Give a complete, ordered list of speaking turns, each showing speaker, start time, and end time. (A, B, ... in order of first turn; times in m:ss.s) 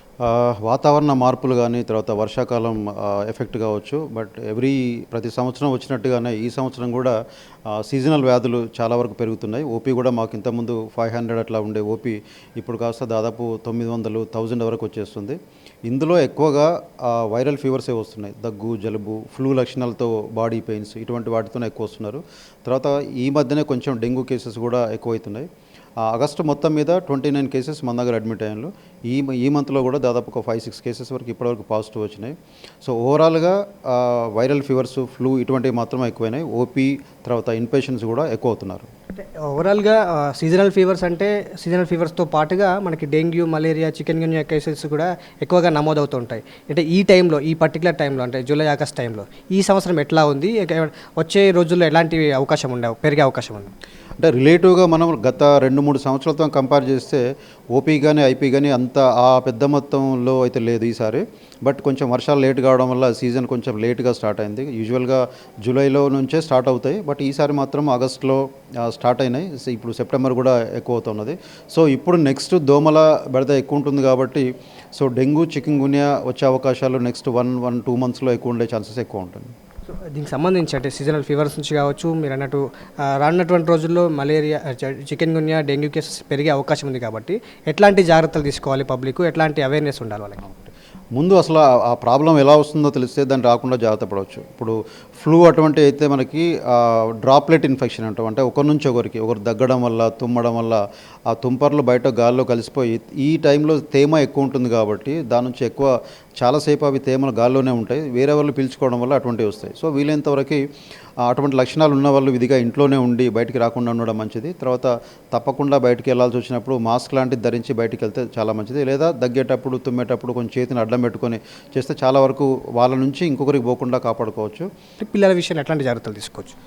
0:00.2-0:07.1 A
0:07.7-0:25.5 A
0:26.0-0:38.9 A
0:39.2-0:53.7 B
0:54.2-1:19.5 A
1:19.9-1:30.7 B
1:31.2-1:50.6 A
1:51.2-2:04.7 A
2:05.0-2:06.6 B